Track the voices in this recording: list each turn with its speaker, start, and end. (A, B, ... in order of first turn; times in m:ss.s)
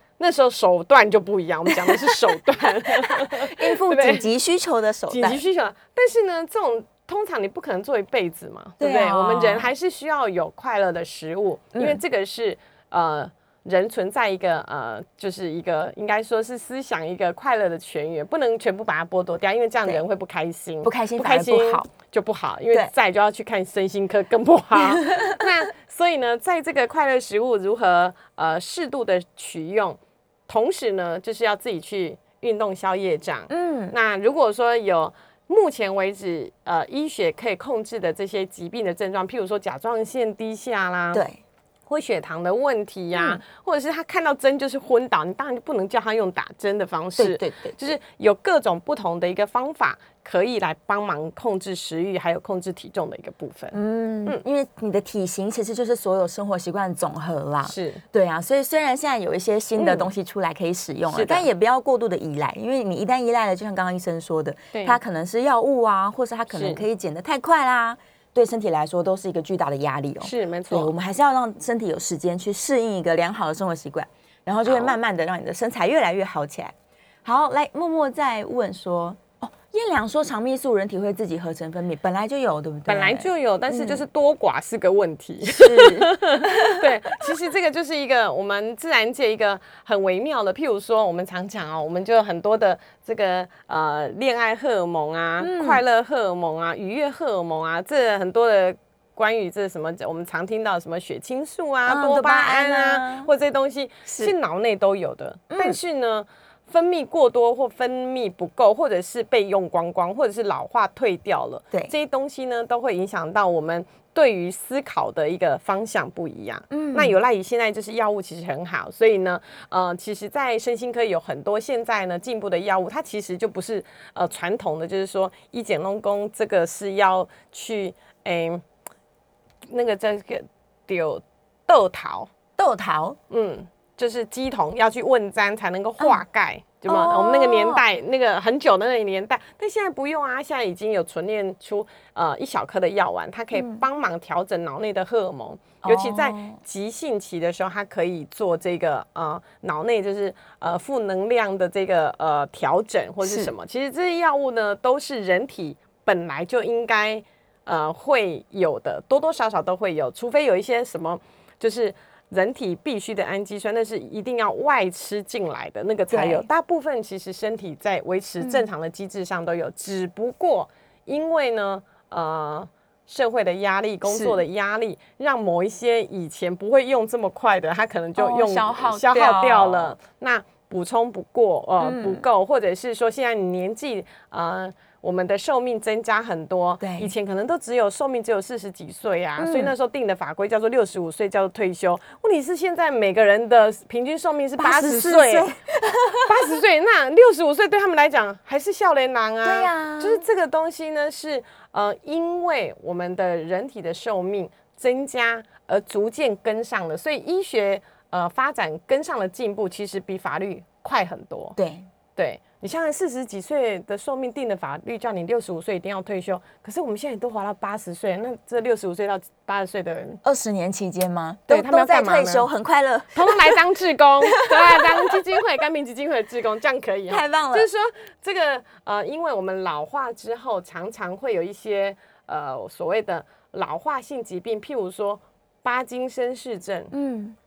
0:00.2-0:04.3 A
0:01.7-0:02.2 B
0:02.9-0:05.4 B
0:05.1-0:41.2 A
0:08.8-0:09.7 B
0:11.7-0:12.0 B
0:20.8-0:21.9 B
0:24.8-0:25.4 B
0:33.5-0:33.9 B
0:41.1-0:41.4 B
0:41.9-0:54.4 A
0:43.2-0:43.4 B
0:47.2-0:47.8 B
0:53.7-1:16.7 B
0:57.7-0:58.0 A
0:59.8-1:00.1 A
1:01.1-1:01.5 A
1:04.7-1:05.0 A
1:06.5-1:06.8 A
1:10.2-1:10.9 A
1:14.6-1:15.0 A
1:17.2-1:24.0 B
1:22.9-2:08.6 A
1:25.4-1:27.3 B
1:35.4-1:35.8 B
1:41.9-1:43.3 B
1:44.1-1:44.3 B
1:45.5-1:45.8 B
1:56.7-1:57.2 B
2:09.7-2:12.3 A
2:12.6-2:13.2 B
2:13.3-3:15.5 A
2:16.9-2:17.8 B
2:23.5-2:23.8 B
2:25.8-2:26.6 B
2:33.2-2:33.5 B
2:46.1-2:46.5 B
2:48.4-2:48.7 B
2:54.1-2:54.4 B
2:58.2-3:00.0 B
3:01.8-3:02.2 B
3:06.8-3:07.1 B
3:09.4-3:09.7 B
3:14.6-3:16.3 B
3:16.3-3:31.6 A
3:19.4-3:20.2 B
3:31.6-3:31.9 B
3:32.2-3:40.2 A
3:40.2-3:43.6 B
3:41.5-3:42.5 A
3:43.2-3:56.9 A
3:44.2-3:45.2 B
3:47.1-3:47.7 B
3:56.9-3:57.4 B